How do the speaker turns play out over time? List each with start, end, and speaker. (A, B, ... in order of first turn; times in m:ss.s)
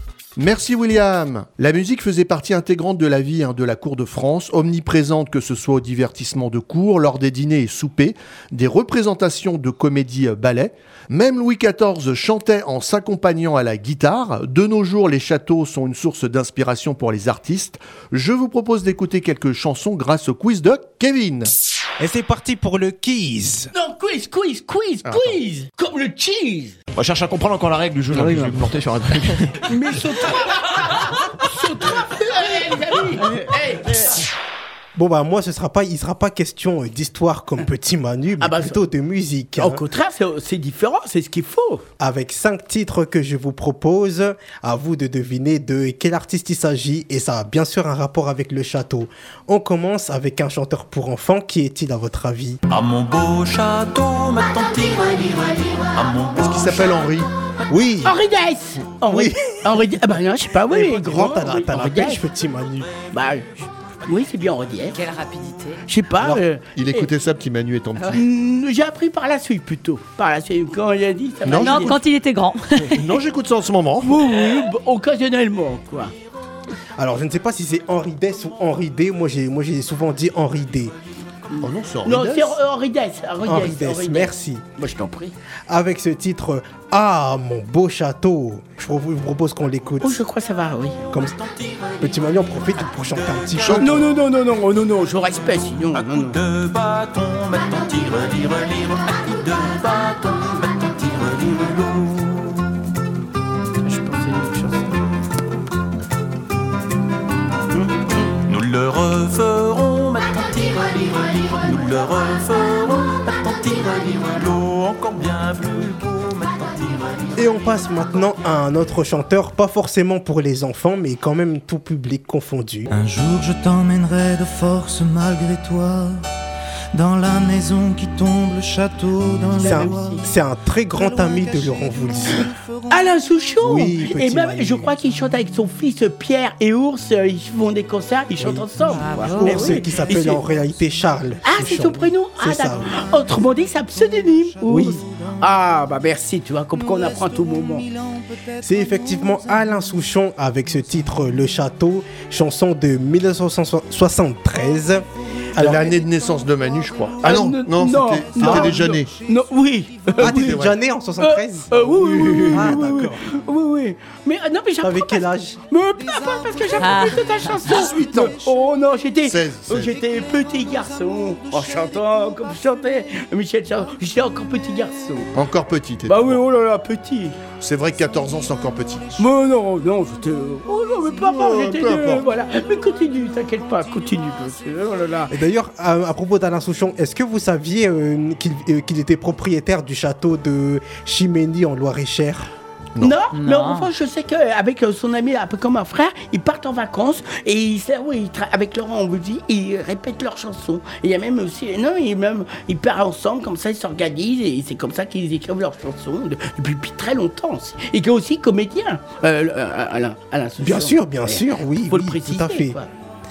0:00.4-0:21.5 A
0:22.0-0:23.7 B
0:23.7-0:26.8 C
0:25.1-0:25.4 A
0:26.9-0:29.7 D
0:29.7-0:34.2 C
0:35.0-0:39.9 B
0:38.4-0:38.8 C
0:39.6-0:41.9 C
0:42.0-0:52.6 B
0:52.7-0:57.2 E
0:56.4-0:57.3 A
0:57.7-0:58.2 B
0:58.0-1:02.2 C
0:59.1-0:59.7 B
1:00.7-1:02.9 B
1:03.1-1:05.0 C
1:04.9-1:05.8 F
1:05.9-1:07.1 C
1:06.8-1:08.2 A
1:08.1-1:12.0 C
1:11.4-1:12.0 A
1:11.6-1:13.0 F
1:12.8-1:14.2 A
1:14.0-1:16.1 C
1:17.0-1:20.9 B
1:21.5-1:25.3 C
1:21.6-1:22.6 A
1:23.4-1:24.7 B
1:25.7-1:30.2 B
1:30.0-1:31.1 C
1:31.1-1:31.4 B
1:31.2-1:33.9 E
1:32.0-1:34.1 B
1:33.7-1:36.4 C
1:35.9-1:42.5 E
1:43.8-1:44.9 C
1:47.7-1:48.2 C
1:48.5-1:58.3 E
1:57.4-2:02.9 B
2:02.9-2:06.2 G
2:06.9-2:13.3 G
2:09.5-2:10.2 C
2:09.6-2:12.5 B
2:12.3-2:20.4 C
2:13.6-2:14.9 B
2:18.4-2:22.9 B
2:18.9-2:19.8 F
2:19.0-2:21.6 G
2:21.4-2:27.9 C
2:22.6-2:25.8 G
2:24.6-2:25.0 B
2:26.7-2:31.5 G
2:28.6-2:35.9 B
2:35.6-2:39.1 A
2:36.2-2:37.2 G
2:37.2-2:40.5 C
2:38.4-2:38.7 B
2:40.2-2:43.2 B
2:40.2-2:40.8 A
2:41.2-2:55.3 C
2:44.8-2:45.6 B
2:46.0-2:48.7 G
2:46.8-2:47.3 F
2:47.7-2:48.4 A
2:49.2-2:50.0 A
2:49.8-2:52.9 G
2:53.8-2:54.6 G
2:55.3-2:56.4 A
2:56.1-2:57.4 C
2:57.6-2:59.1 A
2:58.0-2:59.4 G
2:59.2-3:05.3 C
3:00.1-3:01.2 G
3:01.2-3:02.2 A
3:02.6-3:05.0 G
3:05.3-3:12.5 B
3:13.0-3:32.9 C
3:13.3-3:13.9 F
3:30.6-3:32.8 B